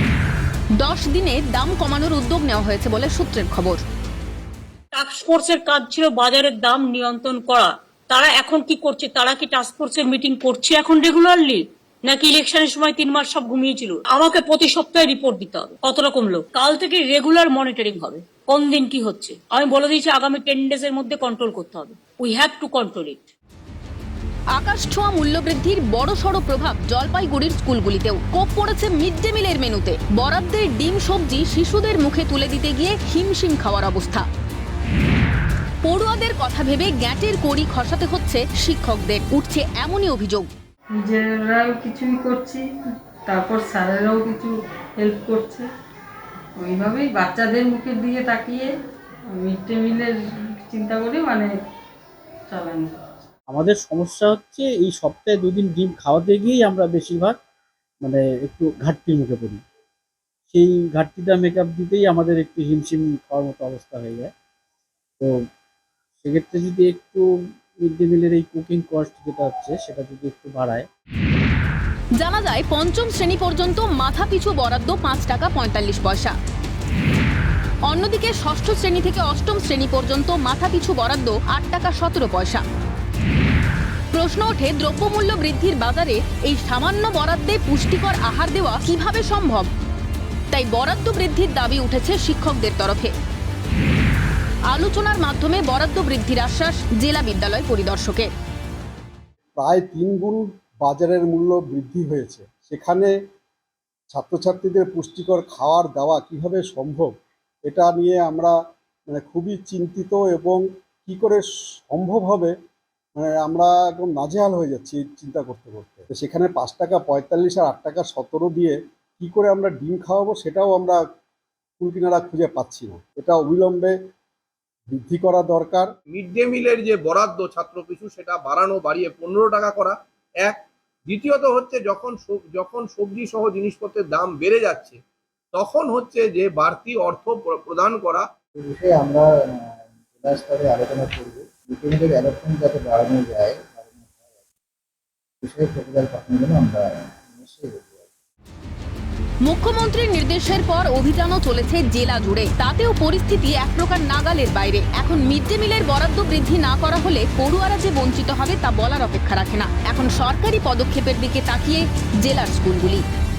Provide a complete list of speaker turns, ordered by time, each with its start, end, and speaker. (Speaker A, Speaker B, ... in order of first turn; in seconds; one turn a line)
Speaker A: 0.8-3.8
Speaker B: 4.9-23.3
Speaker A: 24.6-34.2
Speaker A: 35.8-40.5
Speaker C: 41.0-42.6
Speaker C: 43.3-45.7
Speaker C: 46.6-48.7
Speaker C: 49.3-50.2
Speaker C: 50.7-51.5
Speaker C: 52.5-53.0
Speaker D: 53.5-57.4
Speaker D: 58.0-59.6
Speaker D: 60.5-64.3
Speaker D: 66.2-67.3
Speaker D: 67.8-70.9
Speaker A: 72.2-76.3
Speaker A: 77.9-82.6
Speaker A: 84.1-89.7
Speaker A: 90.5-93.1
Speaker A: 94.7-98.3
Speaker E: 99.6-103.1
Speaker E: 104.1-107.1
Speaker E: 107.7-108.5
Speaker E: 109.1-112.5
Speaker E: 113.2-121.0
Speaker E: 121.8-123.9
Speaker E: 124.9-125.9
Speaker F: 126.1-135.0
Speaker F: 135.5-138.3
Speaker G: 138.6-144.2
Speaker G: 145.4-148.1
Speaker A: 149.5-163.0